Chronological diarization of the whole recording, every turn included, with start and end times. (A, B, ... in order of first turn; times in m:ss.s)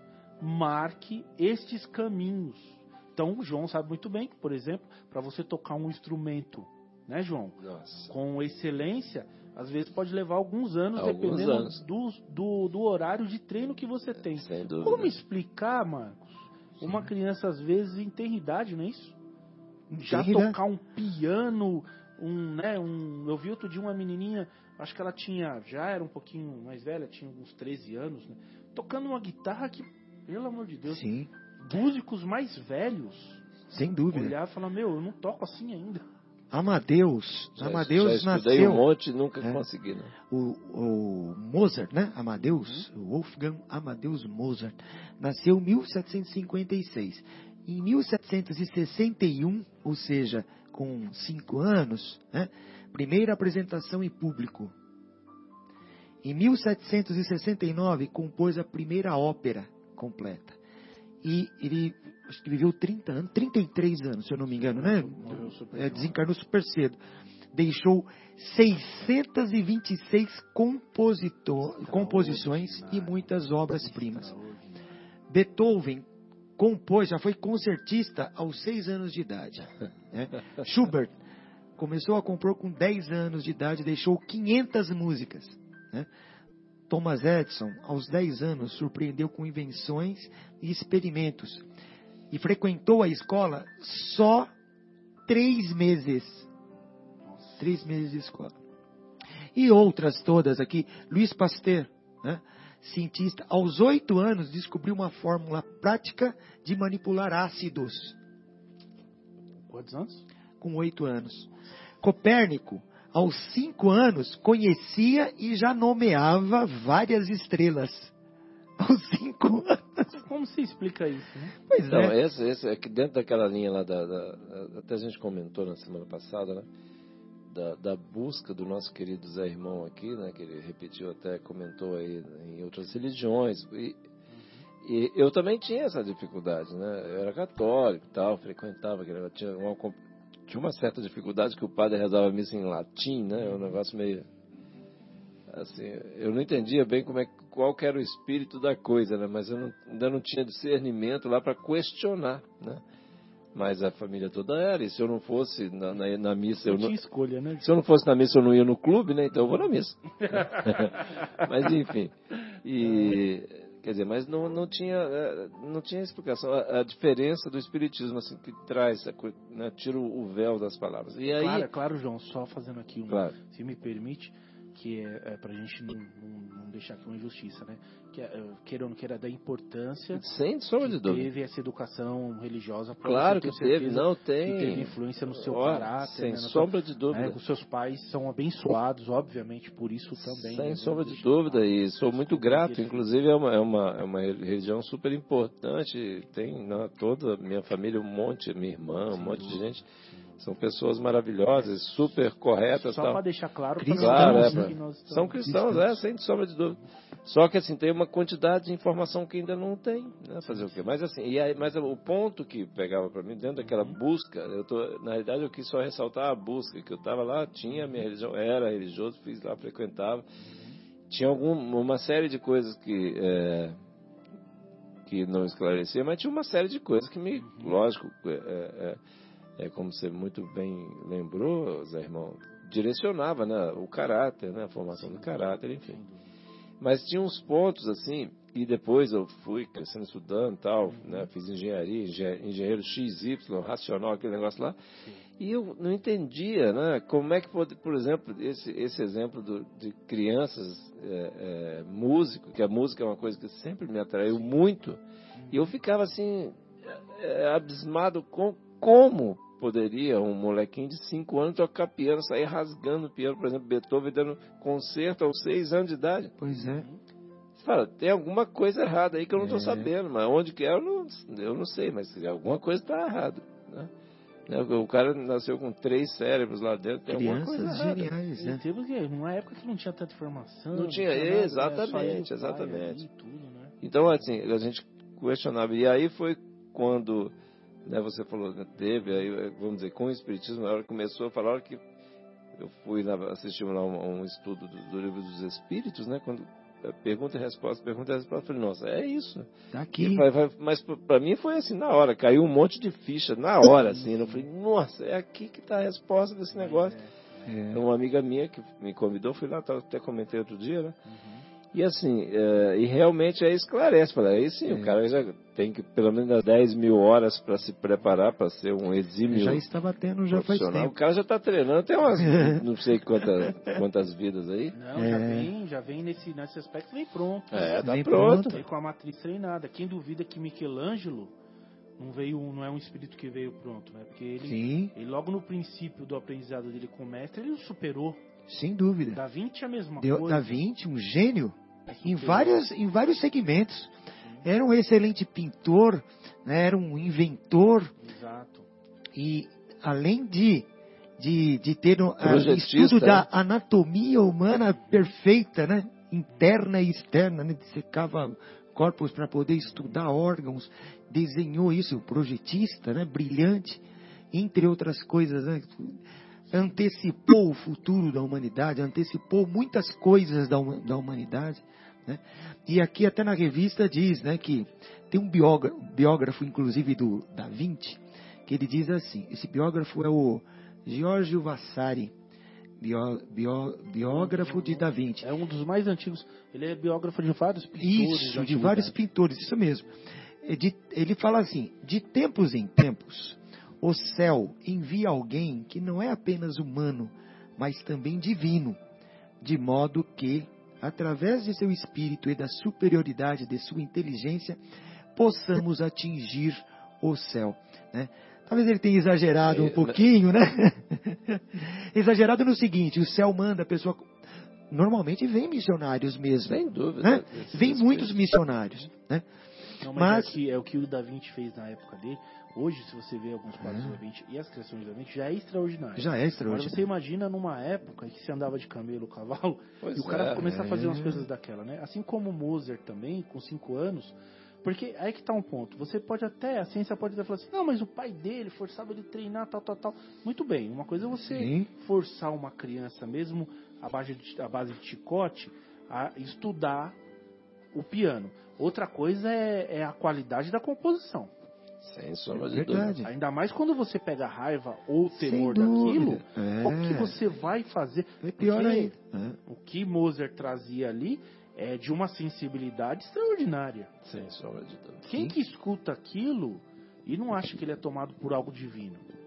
0:00.4-0:07.6 A
0:07.6-0:08.1 B
0:08.1-0:19.2 A
0:11.0-0:11.8 B
0:14.3-0:15.2 B
0:19.9-0:20.6 C
0:20.0-0:31.0 A
0:30.9-0:31.3 C
0:31.6-0:33.4 A
0:33.7-0:34.3 C
0:34.1-0:36.0 A
0:36.5-0:38.9 C
0:37.6-0:40.1 B
0:40.3-0:54.7 C
0:42.4-0:42.8 A
0:56.2-1:00.6 C
1:01.2-1:07.0 C
1:04.6-1:06.2 A
1:07.5-1:14.3 C
1:11.8-1:14.8 A
1:15.3-1:16.0 C
1:16.6-1:21.1 C
1:21.8-1:26.1 C
1:26.9-1:31.6 C
1:32.3-1:34.5 C
1:35.3-1:36.5 C
1:37.3-1:37.6 A
1:37.6-1:38.6 C
1:39.6-1:48.2 C
1:49.7-1:50.2 A
1:50.6-1:51.5 C
1:52.0-1:58.1 C
1:58.8-2:00.1 C
2:00.1-2:01.6 A
2:01.7-2:02.1 C
2:01.9-2:06.7 B
2:07.5-2:14.0 B
2:14.3-2:14.7 A
2:14.8-2:24.3 B
2:25.5-2:32.8 B
2:33.5-2:36.9 B
2:36.6-2:37.7 A
2:37.6-2:51.7 B
2:40.2-2:41.5 A
2:51.3-3:00.2 A
2:53.1-2:53.4 B
3:00.1-3:01.3 B
3:00.8-3:13.1 A
3:03.0-3:07.4 B
3:10.2-3:19.8 B
3:19.1-3:19.6 A
3:20.1-3:20.4 A
3:20.4-3:23.2 B
3:22.8-3:25.4 A
3:23.8-3:24.8 C
3:24.0-3:40.2 B
3:25.4-3:26.0 C
3:30.4-3:30.8 A
3:33.6-3:34.0 A
3:40.4-3:40.7 A
3:41.1-3:43.8 B
3:45.1-3:49.0 B
3:47.3-3:47.8 A
3:49.6-3:56.0 B
3:54.9-3:56.3 A
3:56.8-4:04.8 B
4:00.8-4:01.3 A
4:05.4-4:15.0 B
4:15.4-4:15.8 A
4:15.5-4:26.3 B
4:26.4-4:26.9 C
4:26.5-4:27.0 A
4:27.6-4:33.9 B
4:29.4-4:29.9 C
4:34.5-4:38.1 B
4:37.1-4:38.6 C
4:38.4-4:43.8 A
4:40.7-4:43.0 B
4:43.8-4:47.3 B
4:47.8-4:51.8 B
4:52.6-5:07.0 B
4:59.7-5:00.3 C
5:06.5-5:07.5 A
5:07.4-5:07.8 C
5:07.7-5:11.0 B
5:11.0-5:11.4 A
5:11.7-5:19.6 B
5:14.6-5:15.0 C
5:19.3-5:20.9 C
5:20.3-5:24.8 B
5:22.2-5:22.6 C
5:23.2-5:23.8 C
5:24.7-5:31.3 A
5:24.9-5:25.5 C
5:27.5-5:28.6 B
5:27.8-5:28.6 C
5:32.0-5:38.2 A
5:34.4-5:34.9 C
5:38.5-5:39.2 C
5:39.1-5:40.6 A
5:40.0-5:43.9 C
5:41.9-5:42.6 A
5:44.4-5:47.9 C
5:48.0-5:48.7 A
5:49.1-5:50.7 C
5:51.2-6:22.1 C
5:52.2-5:53.3 B
5:54.7-5:55.0 A
6:22.8-6:25.3 C
6:24.0-6:29.0 A
6:27.8-6:29.9 C
6:30.4-6:38.8 C
6:39.4-6:44.6 C
6:45.1-6:54.1 C
6:49.4-6:50.0 B
6:54.7-6:59.2 C
6:56.5-6:58.2 B
6:59.8-7:27.0 A
6:59.8-7:00.3 C
7:03.6-7:04.0 C
7:06.0-7:06.8 C
7:09.8-7:10.5 B
7:10.4-7:11.3 C
7:21.1-7:21.7 C
7:27.7-7:31.3 A
7:31.8-7:32.9 B
7:32.4-7:33.1 C
7:33.0-7:38.9 A
7:35.1-7:37.2 C
7:38.2-7:39.4 C
7:39.5-7:44.0 A
7:44.0-7:45.0 B
7:45.0-7:49.0 A